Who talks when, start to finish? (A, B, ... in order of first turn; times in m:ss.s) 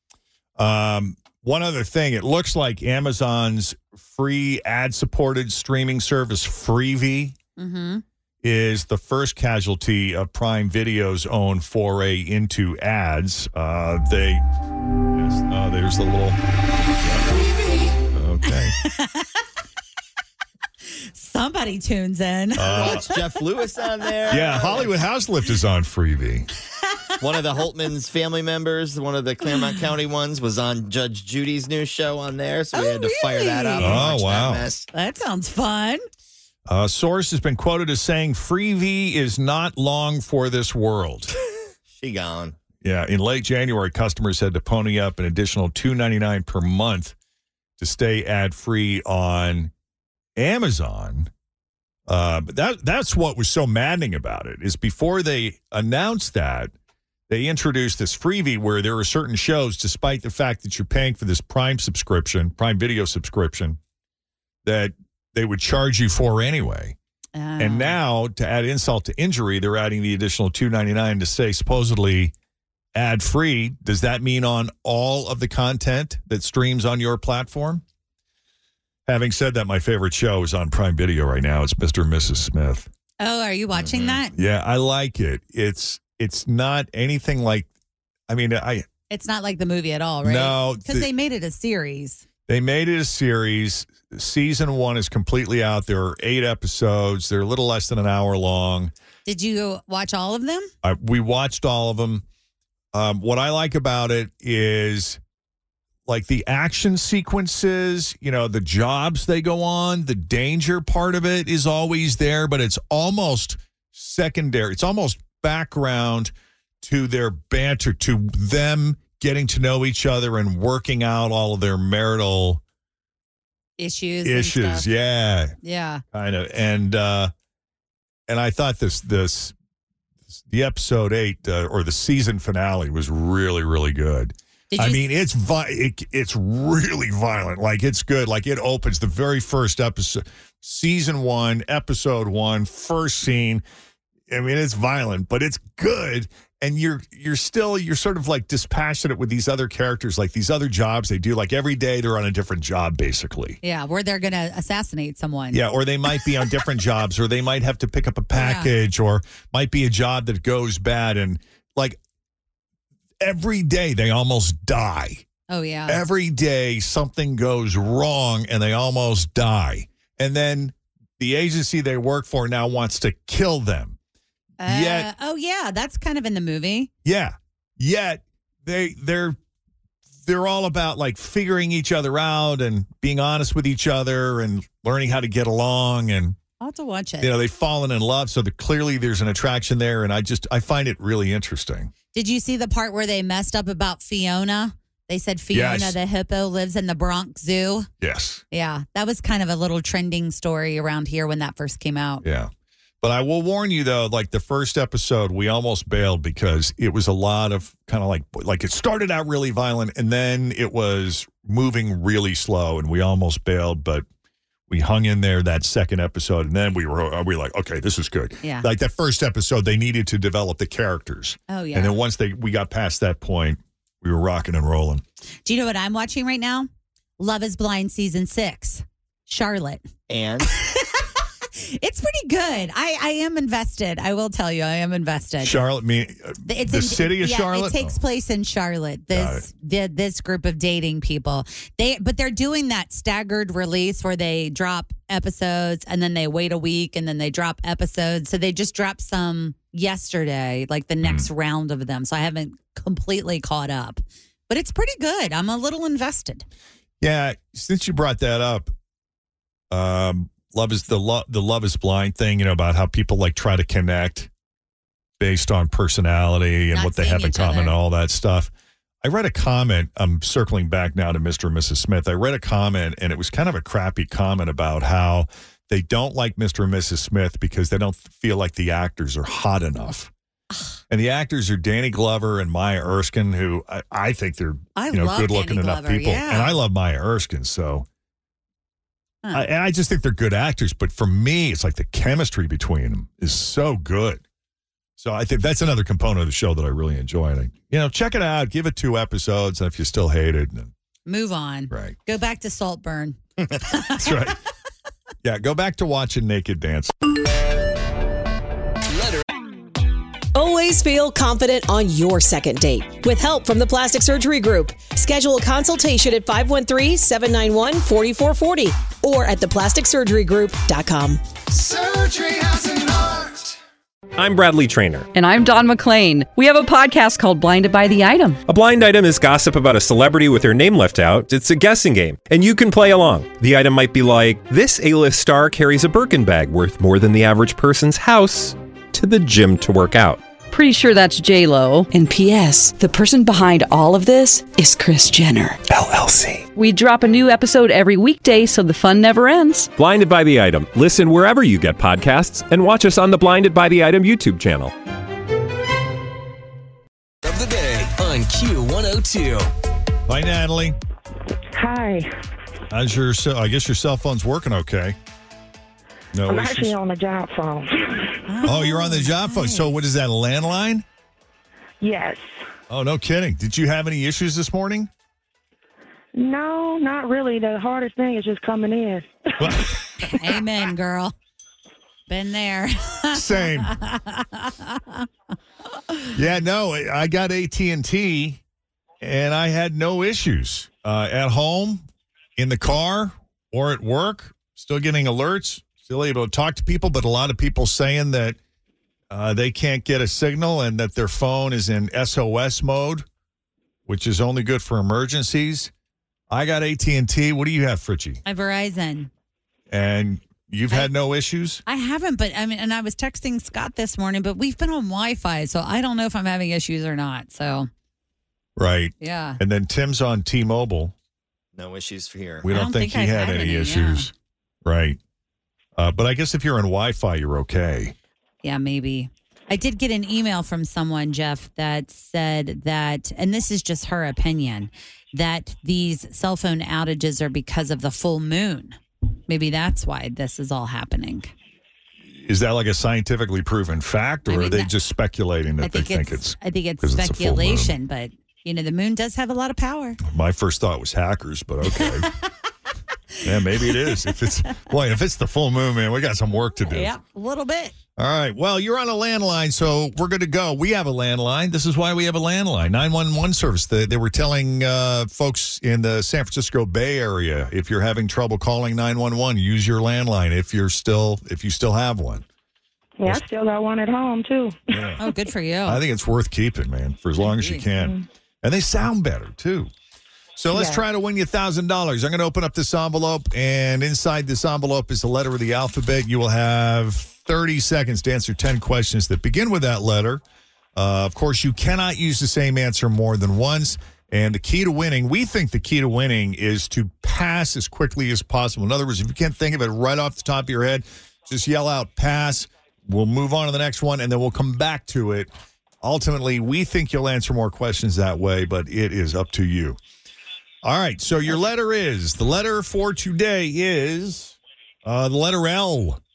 0:00.6-0:07.4 A
0:07.6-0:08.0 B
0:08.4-0:14.4 A
0:15.1-0:16.4 A
0:17.0-0:17.3 A
0:18.1-0:18.7 A
0:18.5-0:19.4 B
0:20.9-0:23.2 B
0:22.6-0:23.1 A
0:22.6-0:24.9 C
0:24.3-0:26.5 A
0:27.2-0:34.9 C
0:32.7-0:34.0 B
0:33.8-0:34.6 A
0:34.9-0:36.0 B
0:36.7-0:41.3 A
0:41.9-0:42.6 C
0:42.8-0:47.1 A
0:47.8-0:49.7 A
0:50.4-0:51.3 A
0:52.1-0:56.7 A
0:57.3-1:03.8 A
1:04.6-1:07.0 A
1:07.4-1:08.0 B
1:07.6-1:12.3 A
1:12.9-1:17.8 A
1:19.1-1:22.9 A
1:23.2-1:24.3 B
1:23.7-1:24.2 C
1:24.3-1:27.7 A
1:28.3-1:28.9 A
1:29.1-1:32.2 B
1:30.2-1:31.1 A
1:32.5-1:38.9 A
1:39.2-1:40.7 B
1:40.8-1:42.2 A
1:42.9-1:45.2 A
1:46.1-2:02.6 A
2:03.8-2:04.9 B
2:04.2-2:05.6 A
2:05.6-2:06.0 B
2:06.1-2:07.3 A
2:08.3-2:09.6 A
2:10.3-2:23.6 A
2:14.7-2:15.0 B
2:24.3-2:33.6 A
2:33.6-2:35.6 B
2:35.5-2:42.0 A
2:38.4-2:38.7 B
2:43.2-2:45.2 A
2:45.5-2:46.0 B
2:45.9-2:54.0 A
2:54.6-2:56.9 B
2:54.6-2:55.1 A
2:57.0-2:59.4 A
3:00.2-3:06.4 A
3:06.6-3:07.3 B
3:07.2-3:11.9 A
3:12.1-3:17.9 B
3:15.5-3:16.0 A
3:18.0-3:18.4 A
3:18.5-3:22.2 B
3:22.2-3:22.5 A
3:23.0-3:34.1 A
3:34.7-3:45.0 A
3:41.5-3:42.0 B
3:45.4-3:49.9 B
3:50.1-3:50.5 C
3:50.4-3:55.6 B
3:55.4-3:58.0 A
3:56.4-4:16.4 B
3:59.1-3:59.4 A
4:11.0-4:11.3 A
4:17.0-4:18.7 A
4:19.7-4:24.3 A
4:25.2-4:28.5 A
4:26.7-4:27.8 B
4:29.0-4:40.1 A
4:40.9-4:47.9 A
4:44.8-4:46.6 B
4:49.3-4:54.2 A
4:55.0-5:00.7 A
5:01.1-5:03.2 B
5:01.7-5:02.0 A
5:03.7-5:04.1 B
5:04.0-5:04.4 A
5:05.2-5:06.9 A
5:08.9-5:09.2 D
5:10.3-5:21.2 E
5:21.8-5:22.4 A
5:24.2-5:25.1 F
5:25.1-5:28.4 G
5:28.5-5:40.2 F
5:40.5-5:45.6 G
5:45.8-5:46.4 F
5:46.5-5:49.7 G
5:49.7-5:54.7 F
5:57.2-5:59.5 D
6:00.1-6:00.8 A
6:01.6-6:02.1 H
6:02.7-6:05.0 A
6:06.1-6:06.7 A
6:06.3-6:08.2 H
6:08.3-6:09.7 B
6:08.4-6:10.8 A
6:11.8-6:12.3 H
6:12.7-6:14.9 A
6:16.1-6:19.5 H
6:19.4-6:19.8 A
6:20.0-6:21.1 B
6:22.1-6:25.1 B
6:23.1-6:23.7 A
6:26.1-6:28.4 A
6:29.0-6:31.8 A
6:32.4-6:38.4 A
6:39.1-6:43.0 A
6:43.9-6:45.7 A
6:46.3-6:48.2 A
6:48.2-6:49.1 B
6:49.7-6:51.6 A
6:51.6-6:57.7 B
6:58.6-7:00.9 A
6:59.0-6:59.4 B
7:01.6-7:02.4 C
7:02.4-7:04.1 A
7:02.5-7:04.1 B
7:04.6-7:05.0 A
7:05.8-7:07.9 A
7:08.4-7:18.8 B
7:19.3-7:21.3 B
7:22.1-7:27.8 A
7:24.3-7:24.7 B
7:25.6-7:30.0 B
7:30.0-7:32.1 A
7:31.7-7:32.1 B
7:33.2-7:36.9 A
7:33.2-7:34.5 B
7:36.6-7:37.8 B
7:38.0-7:52.2 A
7:53.0-7:54.6 H
7:54.7-7:55.0 A
7:55.0-7:55.8 B
7:55.6-7:59.7 A
7:57.2-7:57.6 B
7:57.7-7:58.0 H
8:00.4-8:10.2 A
8:00.5-8:00.8 H
8:10.7-8:29.8 A
8:30.6-8:36.0 A